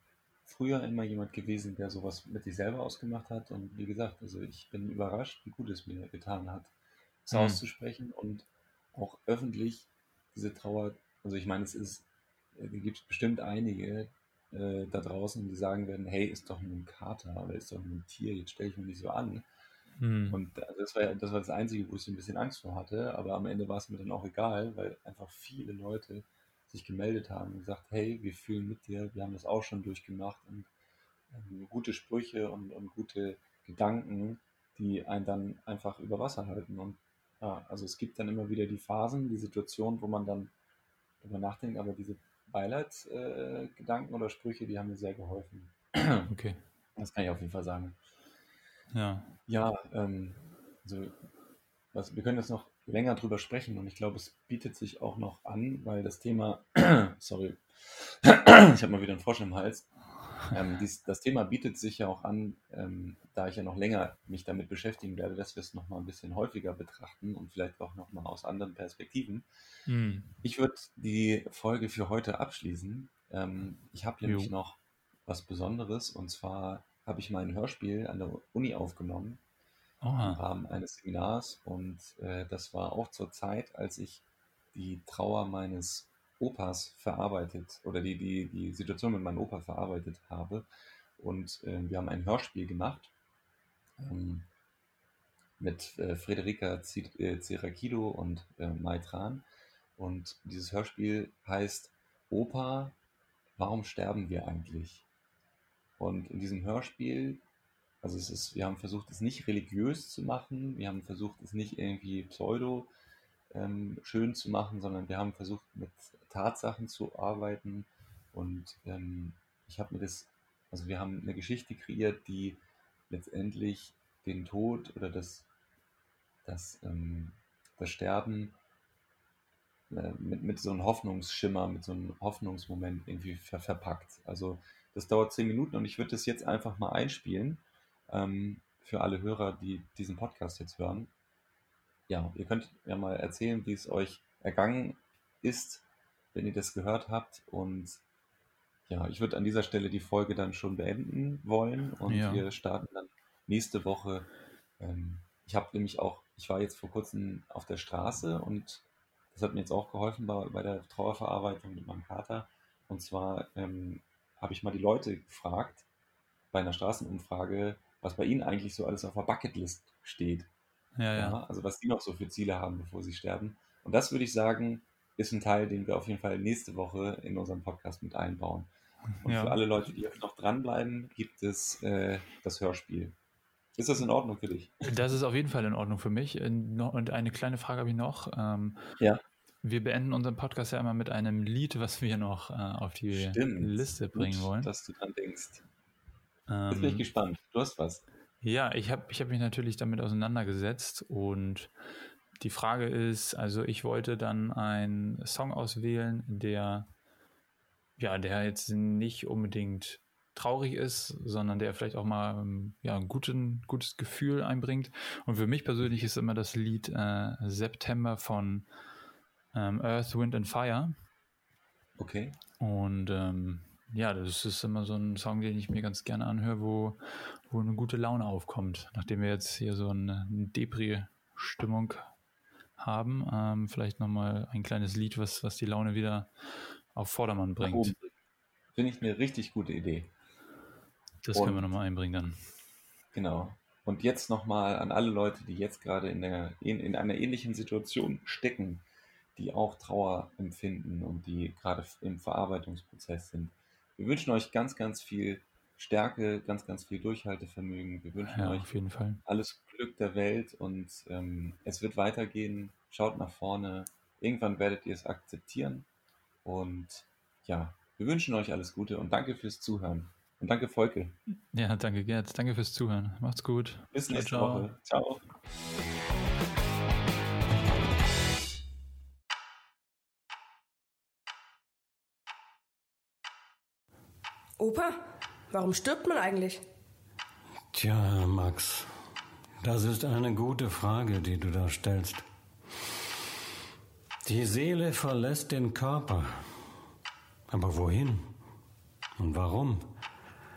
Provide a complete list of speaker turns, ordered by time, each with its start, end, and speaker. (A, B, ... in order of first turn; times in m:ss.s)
0:00.4-0:06.7 A
0:07.2-0:19.4 A
0:07.3-0:07.6 B
0:20.0-0:20.4 B
0:20.3-0:30.7 A
0:31.3-0:40.5 A
0:41.2-0:46.3 A
0:46.3-0:46.6 B
0:47.0-0:48.0 A
0:48.9-0:49.3 B
0:49.5-0:51.1 A
0:51.9-0:59.9 A
1:00.4-1:09.4 A
1:09.9-1:10.3 B
1:10.4-1:19.4 A
1:14.2-1:14.5 B
1:20.0-1:20.4 B
1:20.2-1:24.2 A
1:24.7-1:30.6 A
1:31.2-1:33.1 A
1:34.0-1:34.5 A
1:35.6-1:39.4 A
1:40.0-1:42.9 A
1:43.6-1:45.0 A
1:46.0-1:47.4 A
1:48.0-1:52.9 A
1:53.5-2:02.6 A
2:03.1-2:05.4 A
2:06.4-2:08.5 A
2:09.9-2:21.1 A
2:22.1-2:28.0 A
2:28.9-2:34.3 A
2:32.1-2:32.4 B
2:34.8-2:45.8 A
2:46.5-2:50.5 A
2:51.0-2:51.4 B
2:51.1-2:58.7 A
2:59.2-2:59.6 B
2:59.2-3:03.1 A
3:03.8-3:04.8 A
3:04.8-3:08.8 B
3:09.6-3:14.7 B
3:13.1-3:15.6 A
3:16.5-3:17.0 B
3:16.7-3:18.0 A
3:18.4-3:21.7 B
3:22.4-3:26.9 B
3:28.0-3:38.7 B
3:39.5-3:41.0 B
3:42.0-3:42.4 A
3:42.6-3:52.1 B
3:52.8-3:56.3 B
3:56.9-3:57.9 B
3:57.6-3:58.1 A
3:58.7-4:00.1 A
4:01.2-4:02.4 B
4:01.3-4:01.7 A
4:03.1-4:08.8 A
4:09.4-4:18.7 A
4:18.3-4:19.2 B
4:19.2-4:25.8 A
4:26.4-4:31.2 A
4:31.3-4:34.7 B
4:33.9-4:35.2 A
4:44.6-4:46.6 C
4:47.7-4:48.9 D
4:49.6-4:52.2 D
4:54.2-4:56.3 D
4:57.5-4:58.3 D
4:59.2-4:59.9 D